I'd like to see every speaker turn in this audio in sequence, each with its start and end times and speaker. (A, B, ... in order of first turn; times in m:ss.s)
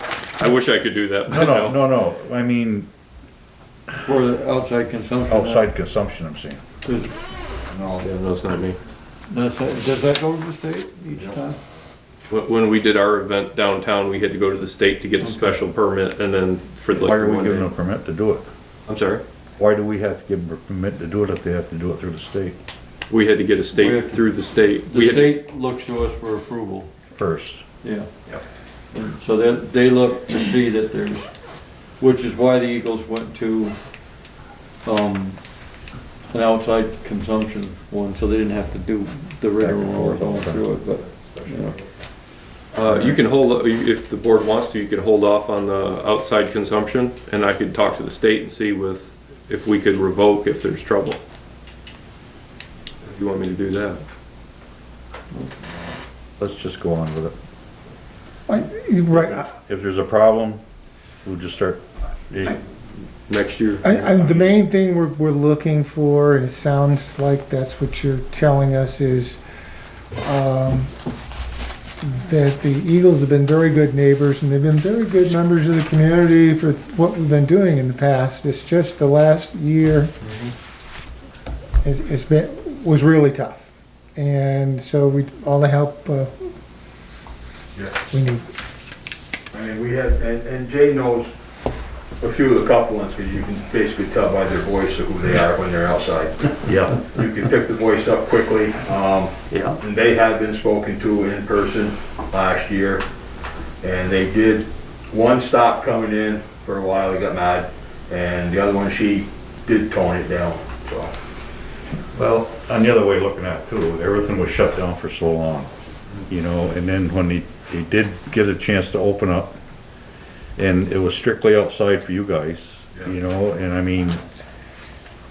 0:00.3-0:01.8 A
0:01.3-0:02.9 B
0:04.0-0:05.7 C
0:05.3-0:06.6 B
0:06.8-0:07.1 C
0:07.7-0:08.1 D
0:08.0-0:08.8 A
0:09.3-0:11.6 C
0:12.3-0:17.7 A
0:16.9-0:18.4 B
0:18.9-0:19.2 A
0:19.6-0:22.6 B
0:23.1-0:25.4 A
0:23.7-0:26.9 C
0:27.1-0:27.6 B
0:27.8-0:28.1 C
0:28.9-0:31.3 C
0:32.0-0:33.8 C
0:34.8-0:35.4 C
0:36.3-0:41.8 C
0:39.6-0:40.7 B
0:41.2-0:41.7 B
0:42.7-0:51.2 A
0:53.0-0:54.0 A
0:56.4-0:57.3 B
0:58.5-0:59.5 E
0:59.1-1:00.6 B
1:01.2-1:02.6 B
1:03.3-1:04.3 A
1:03.8-1:09.4 E
1:10.2-1:10.9 E
1:12.0-1:20.1 E
1:21.8-1:26.5 E
1:28.1-1:28.5 E
1:29.5-1:31.3 D
1:32.2-1:43.0 D
1:36.6-1:37.1 B
1:43.8-1:51.1 D
1:52.1-1:55.7 B
1:56.3-1:59.6 B
2:00.6-2:04.2 B